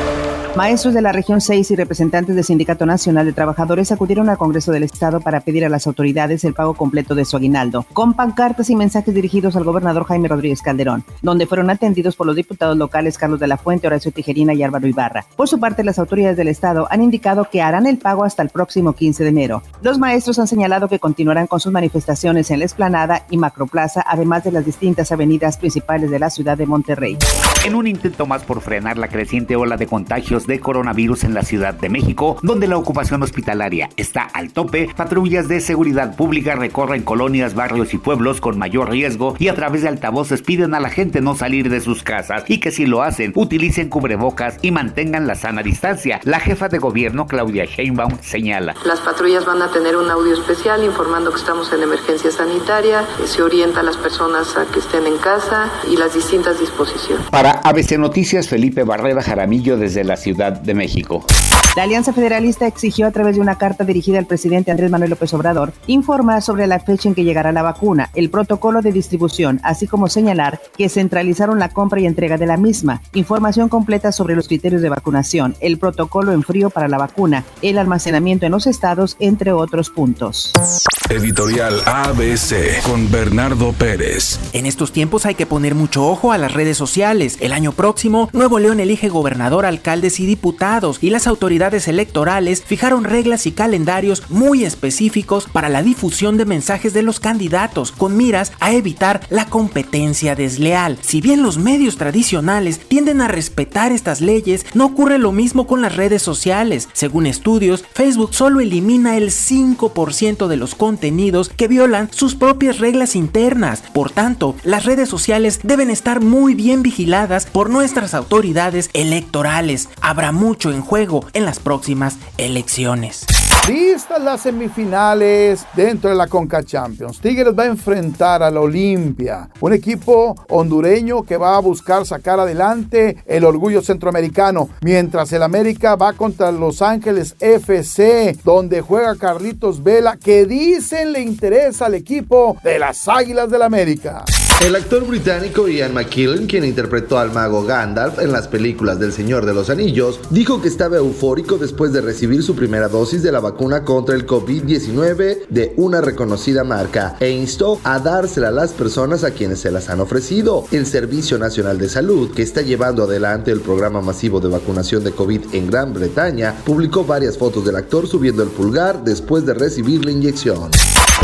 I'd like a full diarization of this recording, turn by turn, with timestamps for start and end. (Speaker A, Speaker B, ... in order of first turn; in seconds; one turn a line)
Speaker A: 0.5-27.2
Speaker B: 27.6-48.8
Speaker C: 48.8-57.2
Speaker B: 57.3-61.2
Speaker A: 61.8-80.6
Speaker D: 81.1-84.4
Speaker E: 84.5-123.3
Speaker F: 123.6-144.3
Speaker G: 144.6-170.8